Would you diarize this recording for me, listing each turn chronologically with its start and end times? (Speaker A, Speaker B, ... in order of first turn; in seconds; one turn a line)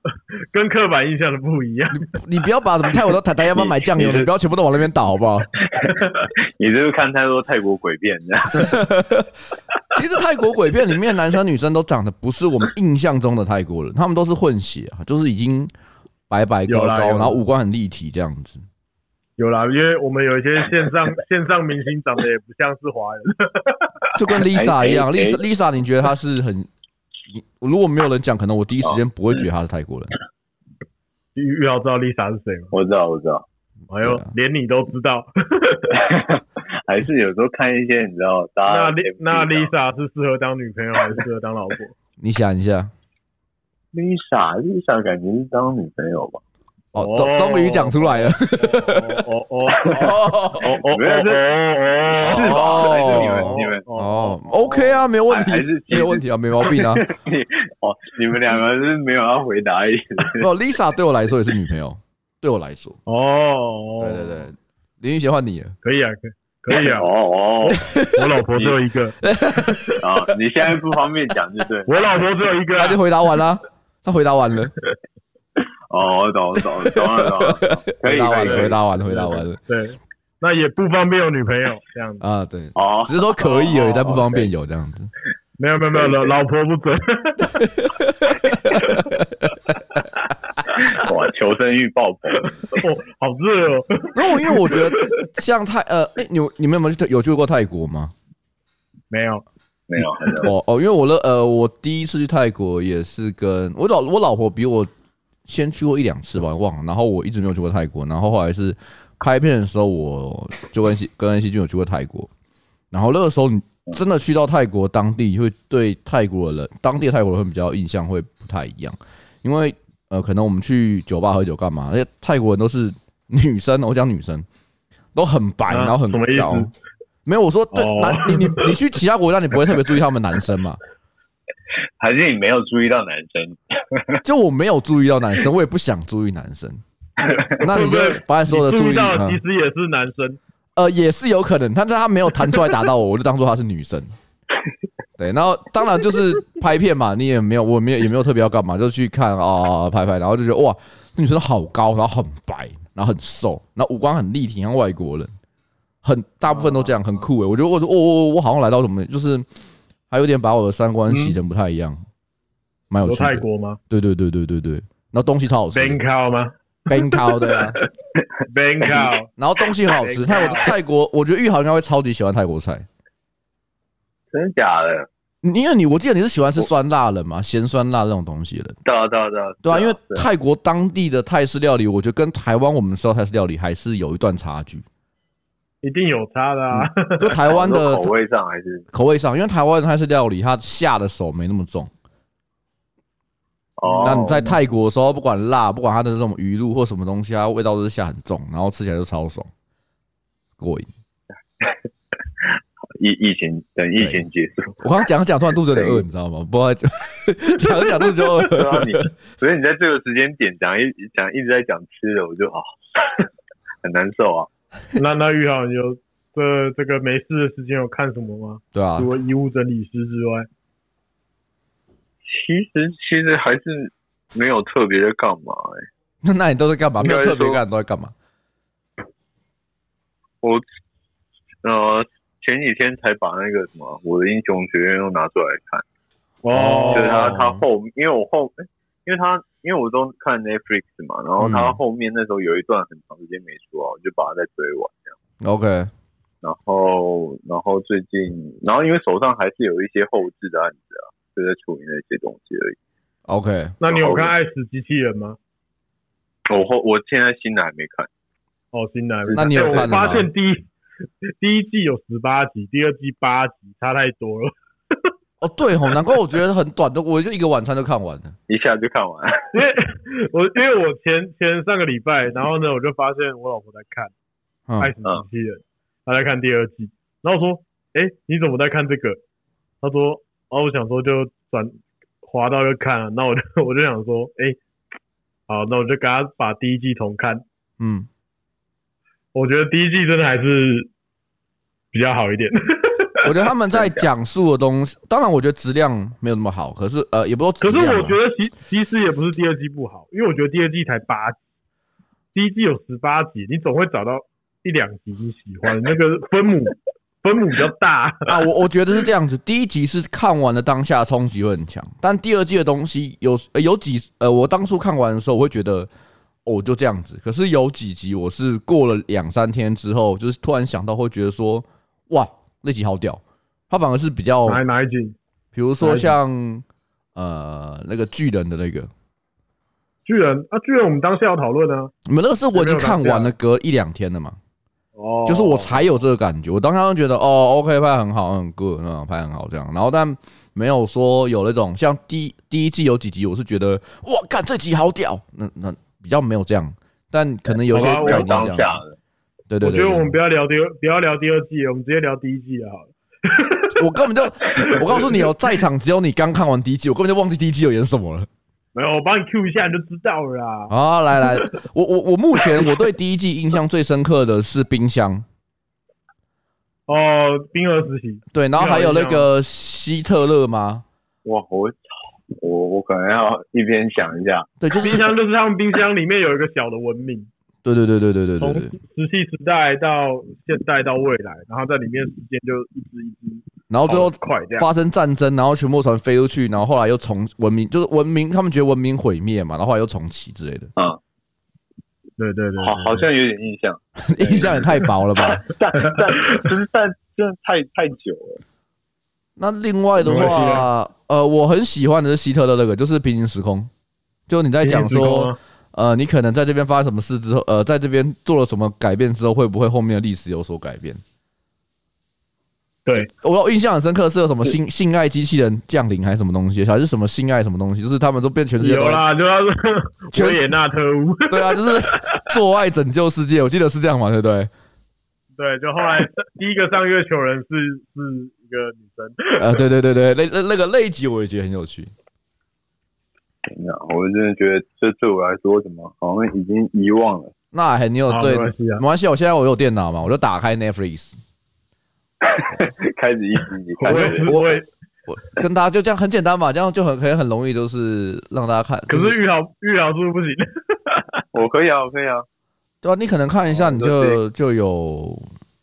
Speaker A: 0.5-2.1
Speaker B: 1.9-5.5
Speaker C: 3.5-4.3
Speaker C: 5.7-8.8
Speaker B: 8.6-9.3
Speaker B: 9.9-15.7
Speaker B: 16.3-18.6
Speaker A: 16.7-17.4
Speaker A: 19.4-24.1
Speaker B: 24.1-26.7
Speaker C: 24.5-25.4
Speaker B: 27.3-30.1
Speaker A: 31.3-32.7
Speaker C: 32.7-33.5
Speaker A: 33.9-36.1
Speaker B: 34.0-34.3
Speaker C: 35.9-39.7
Speaker A: 38.6-41.9
Speaker B: 42.2-42.9
Speaker C: 43.9-46.4
Speaker B: 46.9-49.2
Speaker A: 47.0-55.0
Speaker B: 49.9-50.7
Speaker C: 50.6-51.4
Speaker C: 52.1-53.8
Speaker B: 52.2-57.0
Speaker C: 55.3-60.5
Speaker B: 60.4-63.0
Speaker A: 63.0-64.4
Speaker B: 64.0-65.7
Speaker A: 65.8-67.1
Speaker C: 66.7-67.8
Speaker B: 67.7-68.3
Speaker A: 67.8-70.0
Speaker B: 69.2-70.0
Speaker C: 70.0-72.1
Speaker A: 71.9-73.0
Speaker B: 72.8-74.7
Speaker C: 75.9-78.8
Speaker B: 77.3-79.6
Speaker A: 78.4-82.2
Speaker B: 82.2-85.1
Speaker C: 82.7-84.5
Speaker A: 85.6-87.7
Speaker C: 85.9-86.3
Speaker B: 87.8-89.5
Speaker C: 90.7-92.8
Speaker A: 92.7-95.0
Speaker B: 94.1-98.1
Speaker A: 99.1-99.4
Speaker C: 99.9-100.5
Speaker B: 100.4-104.9
Speaker B: 105.5-112.3
Speaker B: 112.9-124.5
Speaker B: 125.1-126.7
Speaker A: 125.7-126.7
Speaker B: 127.2-130.8
Speaker A: 127.7-128.8
Speaker C: 132.0-134.2
Speaker B: 134.2-136.8
Speaker C: 137.2-137.5
Speaker A: 137.5-140.4
Speaker B: 137.6-139.4
Speaker B: 140.8-144.1
Speaker B: 145.2-155.3
Speaker B: 156.0-159.4
Speaker B: 160.1-162.0
Speaker A: 161.1-161.4
Speaker B: 162.9-166.0
Speaker A: 163.1-163.8
Speaker A: 165.7-167.6
Speaker B: 166.9-167.8
Speaker A: 168.4-169.3
Speaker B: 169.3-172.8
Speaker A: 169.9-170.7
Speaker C: 174.3-175.1
Speaker B: 175.4-178.8
Speaker C: 178.8-180.3
Speaker B: 179.6-184.8
Speaker A: 185.8-187.3
Speaker B: 186.7-188.1
Speaker C: 187.3-188.8
Speaker B: 188.9-191.9
Speaker C: 193.8-194.5
Speaker A: 193.9-194.5
Speaker B: 193.9-199.5
Speaker B: 200.6-200.9
Speaker C: 202.4-204.8
Speaker B: 204.0-204.2
Speaker B: 204.8-209.1
Speaker C: 205.7-206.0
Speaker C: 208.5-213.2
Speaker C: 213.8-214.5
Speaker A: 214.9-220.5
Speaker B: 218.7-219.1
Speaker C: 222.2-225.8
Speaker B: 226.2-228.1
Speaker C: 227.0-227.6
Speaker C: 231.6-235.8
Speaker A: 236.4-237.3
Speaker B: 236.5-237.6
Speaker C: 236.9-245.2
Speaker B: 241.4-241.8
Speaker B: 245.4-245.9
Speaker C: 246.4-252.8
Speaker B: 253.3-253.8
Speaker A: 253.8-255.4
Speaker C: 253.8-254.3
Speaker C: 256.5-258.1
Speaker A: 258.7-260.6
Speaker C: 259.2-260.1
Speaker B: 259.3-260.3
Speaker A: 261.3-265.1
Speaker B: 265.4-268.4
Speaker C: 268.5-269.5
Speaker A: 269.5-274.1
Speaker A: 274.8-279.2
Speaker A: 279.8-284.6
Speaker A: 285.5-287.4
Speaker B: 287.8-288.1
Speaker A: 289.3-290.9
Speaker A: 291.9-293.2
Speaker B: 293.2-298.2
Speaker C: 293.7-294.1
Speaker A: 297.6-301.4
Speaker A: 302.3-308.3
Speaker B: 308.3-315.9
Speaker B: 316.4-324.6
Speaker A: 324.4-325.1
Speaker B: 325.5-326.6
Speaker A: 325.8-326.1
Speaker B: 327.1-328.9
Speaker A: 330.0-331.9
Speaker B: 332.1-334.4
Speaker A: 332.5-333.3
Speaker A: 334.9-335.8
Speaker B: 335.2-348.8
Speaker A: 347.7-348.5
Speaker C: 347.7-348.9
Speaker B: 349.5-350.1
Speaker A: 349.6-353.8
Speaker B: 353.7-358.3
Speaker A: 354.6-355.3
Speaker A: 358.7-361.5
Speaker B: 360.7-365.2
Speaker A: 366.9-369.3
Speaker B: 368.3-370.8
Speaker C: 371.2-374.5
Speaker B: 374.6-375.0
Speaker A: 374.8-377.3
Speaker B: 377.6-378.8
Speaker A: 378.4-384.7
Speaker B: 383.7-390.7
Speaker A: 392.2-393.1
Speaker C: 392.6-398.4
Speaker B: 394.0-395.4
Speaker A: 395.8-396.5
Speaker B: 399.4-403.7
Speaker A: 400.0-400.6
Speaker C: 400.1-400.6
Speaker B: 404.3-411.0
Speaker A: 404.6-405.4
Speaker B: 413.0-419.0
Speaker A: 418.6-422.2
Speaker B: 420.1-420.6
Speaker B: 421.3-424.5
Speaker A: 425.4-429.6
Speaker B: 429.4-431.9
Speaker C: 433.5-437.3
Speaker B: 437.5-441.2
Speaker A: 438.1-438.8
Speaker C: 442.2-444.3
Speaker A: 443.8-444.6
Speaker B: 443.8-449.1
Speaker A: 448.9-451.2
Speaker C: 451.3-452.2
Speaker B: 452.8-455.3
Speaker C: 453.5-454.2